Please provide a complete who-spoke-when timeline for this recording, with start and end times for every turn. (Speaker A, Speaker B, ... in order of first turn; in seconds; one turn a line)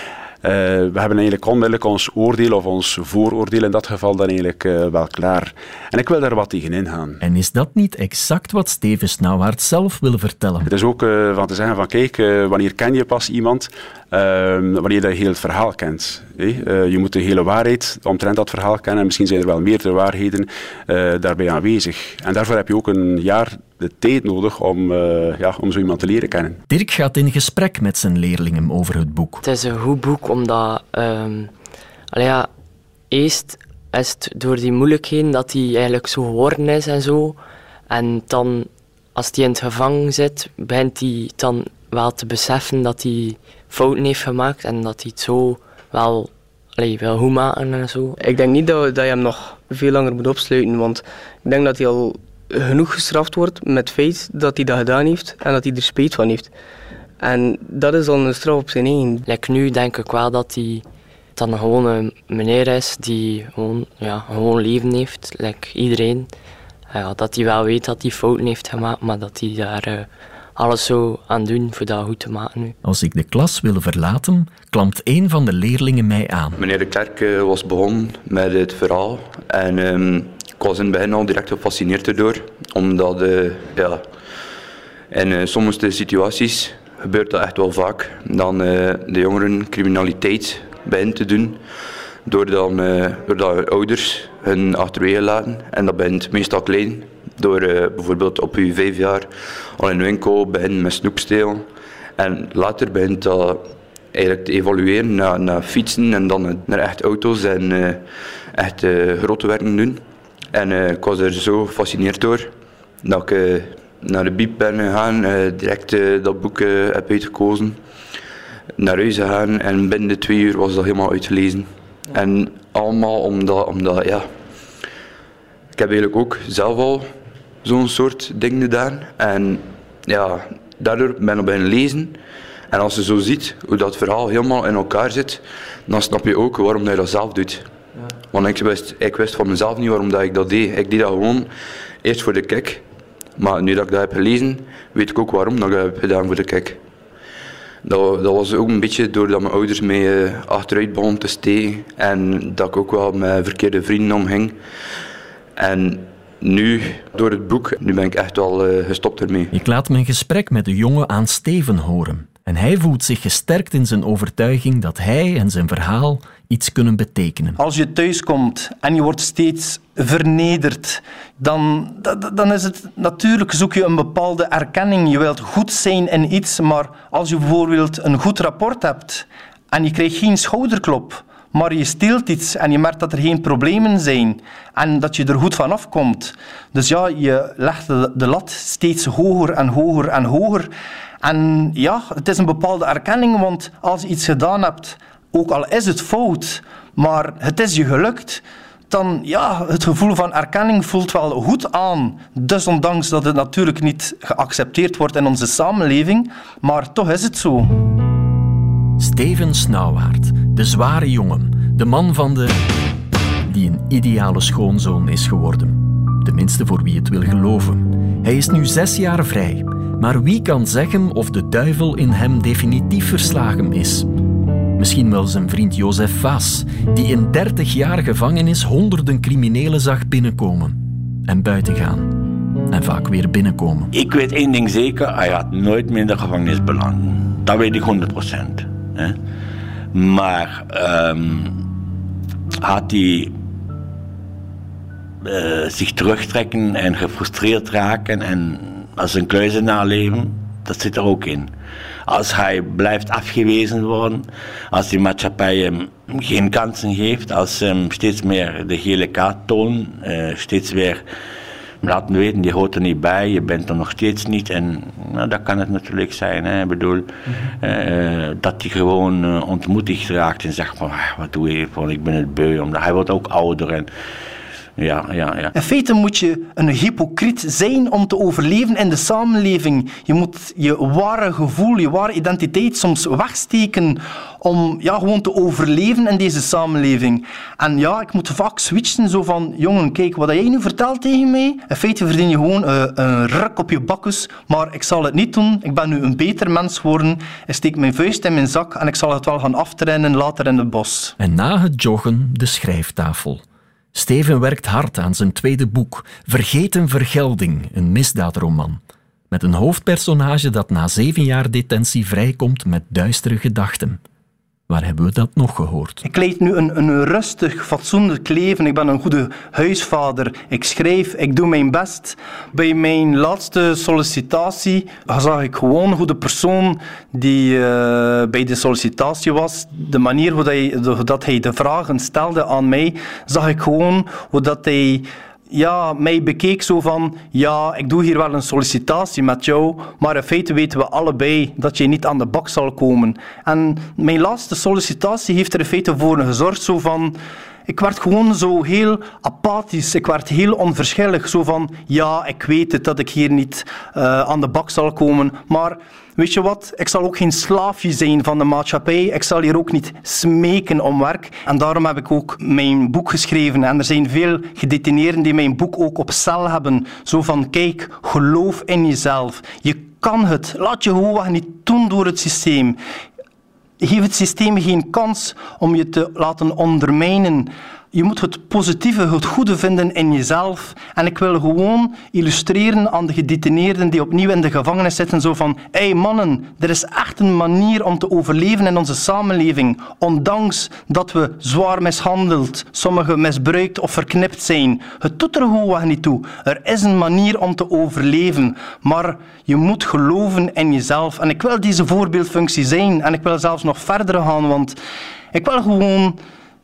Speaker A: 0.4-7.2
Speaker B: 7.2-10.7
Speaker A: 10.7-26.6
Speaker B: 26.7-29.4
Speaker C: 29.4-31.5
Speaker C: 32.1-32.5
Speaker C: 33.1-48.2
Speaker D: 48.2-56.5
Speaker D: 57.2-59.2
Speaker C: 59.3-60.8
Speaker C: 61.4-66.3
Speaker C: 66.9-72.8
Speaker B: 72.8-76.6
Speaker E: 76.6-84.0
Speaker E: 85.1-91.6
Speaker E: 92.2-110.0
Speaker E: 110.5-117.8
Speaker E: 118.8-124.3
Speaker E: 125.8-127.1
Speaker E: 127.6-132.2
Speaker E: 132.7-137.7
Speaker E: 138.3-141.5
Speaker E: 142.0-142.8
Speaker E: 143.4-146.8
Speaker E: 147.8-154.6
Speaker E: 155.6-159.5
Speaker B: 159.5-167.6
Speaker F: 167.6-190.7
Speaker F: 191.2-207.8
Speaker B: 209.0-212.6
Speaker B: 213.5-224.1
Speaker B: 224.8-232.2
Speaker B: 232.7-233.9
Speaker G: 233.9-239.2
Speaker G: 239.9-241.6
Speaker G: 242.6-243.3
Speaker G: 245.2-251.5
Speaker G: 252.1-261.0
Speaker G: 261.8-273.9
Speaker G: 274.8-275.5
Speaker F: 275.5-301.1
Speaker B: 301.2-303.4
Speaker B: 303.9-308.8
Speaker B: 309.3-314.0
Speaker B: 314.7-316.0
Speaker F: 316.0-372.8
Speaker F: 373.8-404.8
Speaker F: 405.3-406.2